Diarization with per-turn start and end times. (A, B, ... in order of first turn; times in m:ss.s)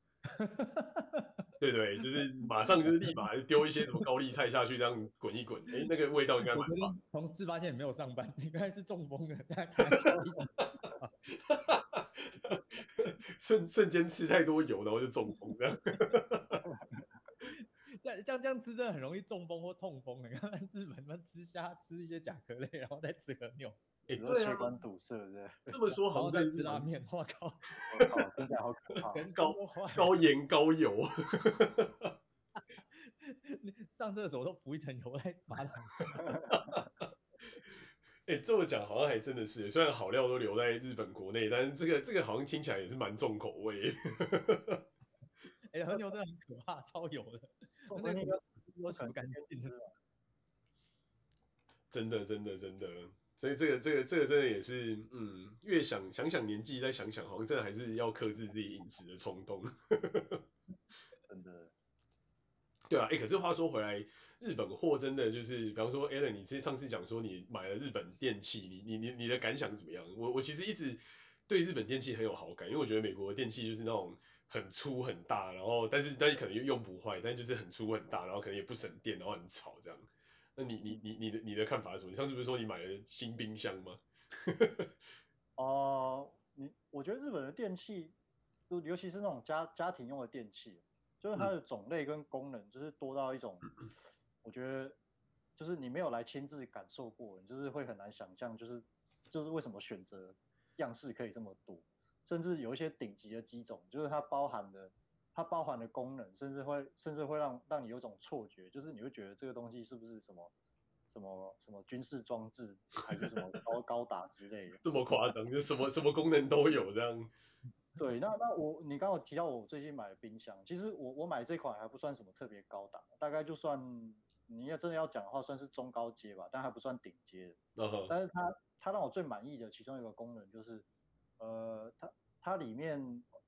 0:00.3-0:01.3 A
0:01.6-0:06.9 B
0:02.4-0:03.2 A
0:06.4-0:11.1 A
0:11.4-0:16.6 B
0:16.6-0:17.0 C
0:17.5-0:23.8 A
0:24.1-0:24.8 B
0:24.2-0:25.7 C
0:25.7-0:26.8 B
0:26.1-0:27.7 A
0:27.9-0:29.2 C
0:29.1-0:30.2 A
0:29.3-0:32.1 B
0:33.0-0:36.4 A
0:36.2-0:36.5 C
0:36.5-0:36.9 B
0:38.2-0:44.8 B
0:45.7-0:49.7 A
0:47.9-0:49.9 C
0:51.9-1:00.4 B
1:01.2-1:01.7 C
1:02.9-1:24.9 B
1:25.6-1:28.2 C
1:28.7-1:33.8 C
1:34.4-1:35.0 C
1:35.6-1:50.5 C
1:51.1-1:54.8 C
1:54.8-1:57.3 B
1:58.0-2:07.6 C
2:07.8-2:08.1 B
2:08.1-2:10.8 C
2:11.4-2:13.3 C